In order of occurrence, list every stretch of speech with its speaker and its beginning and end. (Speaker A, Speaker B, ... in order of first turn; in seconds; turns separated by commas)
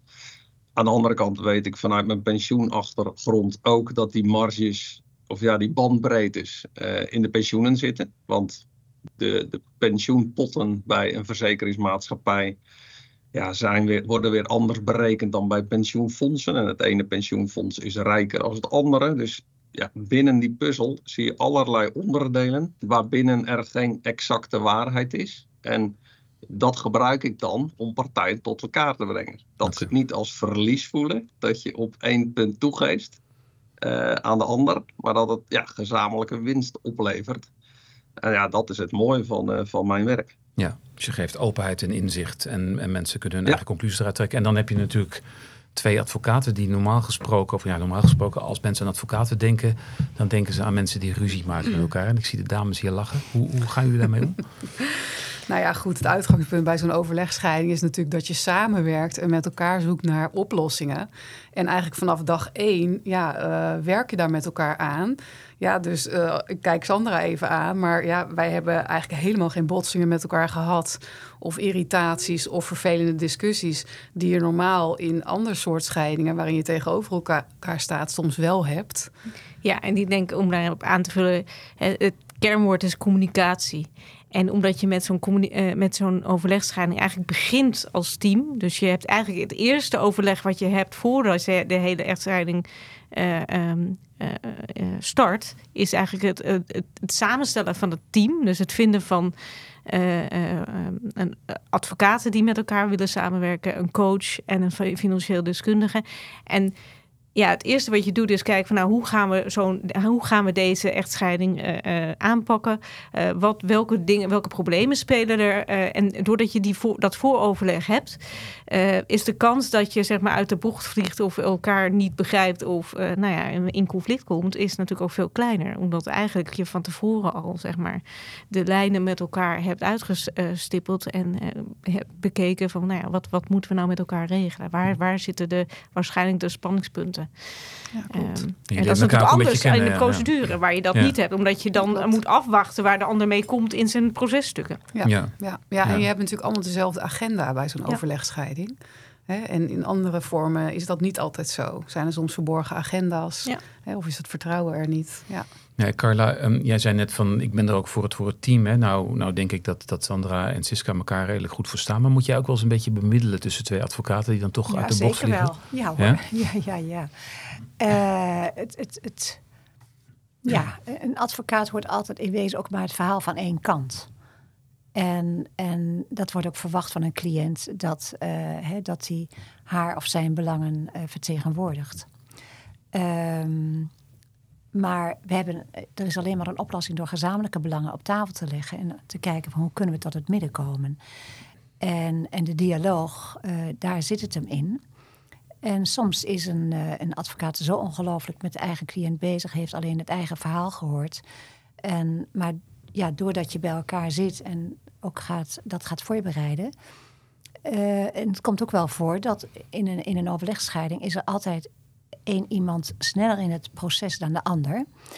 Speaker A: 0.8-8.6, Speaker A: 9.2-12.6, Speaker A: 13.3-25.9, Speaker A: 26.5-33.2, Speaker A: 33.8-37.5, Speaker A: 38.2-40.3, Speaker B: 40.6-45.2, Speaker B: 45.8-54.5, Speaker C: 55.5-79.1, Speaker D: 79.6-99.3, Speaker D: 99.8-106.7, Speaker D: 107.3-144.8, Speaker C: 137.9-138.4, Speaker B: 138.7-141.1, Speaker C: 141.9-142.2, Speaker C: 144.9-148.8, Speaker B: 145.1-146.1, Speaker C: 149.3-155.4, Speaker B: 155.8-166.2, Speaker E: 164.7-169.4, Speaker E: 170.4-174.1, Speaker E: 174.9-182.1, Speaker E: 182.9-183.9, Speaker E: 184.7-191.0, Speaker E: 191.8-194.8, Speaker E: 195.6-201.2, Speaker E: 201.8-206.7, Speaker E: 207.7-211.7, Speaker E: 212.3-214.8